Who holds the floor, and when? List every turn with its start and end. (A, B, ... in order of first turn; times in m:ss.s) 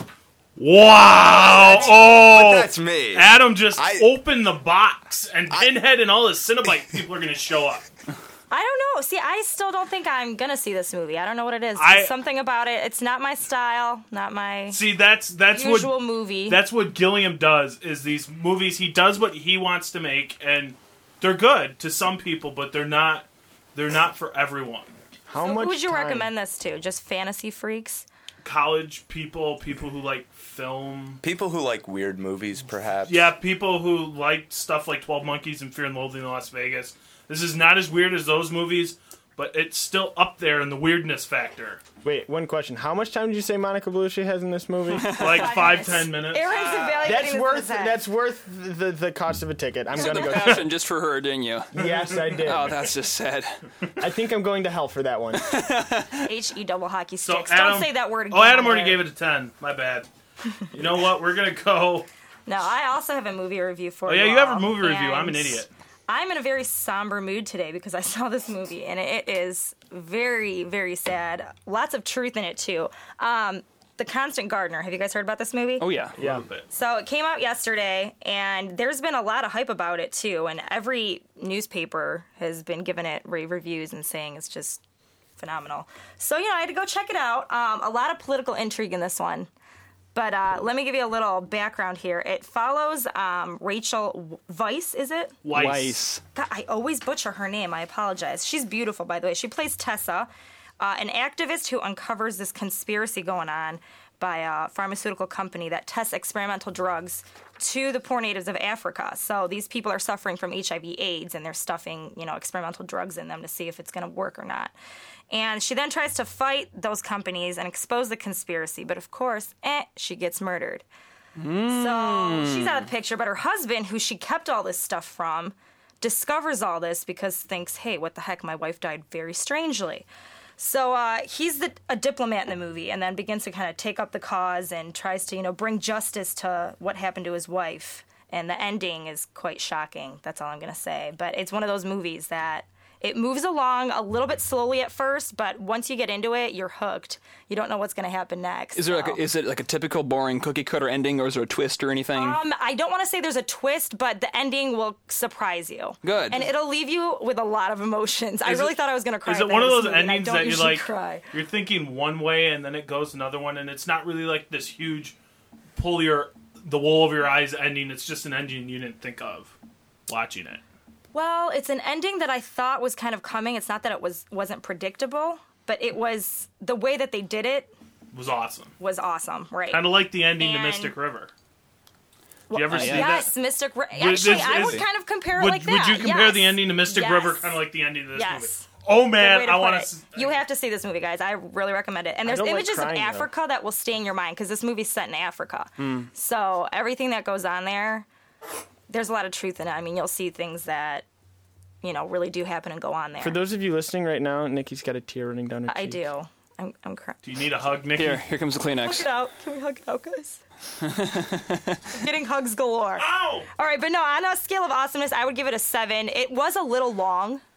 0:00.6-0:07.9 A
0:01.3-0:04.1 B
0:01.6-0:02.1 C
0:08.5-0:14.8 C
0:11.8-0:12.1 A
0:14.7-0:25.0 A
0:15.5-0:16.6 C
0:25.3-0:26.3 D
0:25.4-0:28.1 C
0:28.4-0:31.2 A
0:31.2-0:33.3 B
0:33.1-0:41.8 A
0:42.0-0:45.2 D
0:45.1-0:45.5 E
0:45.2-0:46.5 A
0:45.2-0:48.0 C
0:46.5-0:47.1 E
0:47.0-0:50.7 D
0:49.9-0:51.8 E
0:50.3-0:50.6 A
0:51.7-0:52.8 D
0:51.8-0:52.4 A
0:52.4-0:53.6 E
0:54.0-0:55.5 D
0:55.4-0:56.3 E
0:56.3-0:59.0 C
0:57.2-1:00.1 A
1:00.7-1:02.1 A
1:02.5-1:15.9 C
1:04.1-1:05.7 A
1:15.8-1:16.2 E
1:16.2-1:16.4 D
1:16.2-1:16.7 A
1:16.7-1:24.8 C
1:25.4-1:29.5 C
1:30.2-1:35.4 C
1:35.4-1:36.0 A
1:35.5-1:36.2 E
1:36.4-1:54.7 C
1:55.3-2:00.8 C
2:01.4-2:02.9 E
2:01.7-2:10.1 C
2:10.6-2:29.2 C
2:28.8-2:32.4 E
2:32.1-2:41.2 C
2:36.0-2:36.5 E
2:38.4-2:45.2 A
2:45.8-2:49.5 A
2:50.1-2:50.6 A
2:51.1-2:57.7 C
2:58.1-2:58.7 A
2:58.8-3:01.0 C
2:59.7-3:01.3 A
3:02.5-3:18.1 C
3:02.5-3:03.3 A
3:02.7-3:03.2 E
3:04.0-3:10.4 A
3:12.2-3:13.3 D
3:15.8-3:16.1 E
3:18.9-3:21.1 C
3:21.8-3:23.4 C
3:23.2-3:26.0 D
3:25.7-3:27.2 C
3:27.2-3:28.2 A
3:28.0-3:29.1 E
3:28.8-3:30.4 C
3:30.8-3:31.8 E
3:31.9-3:37.4 C
3:33.0-3:33.5 A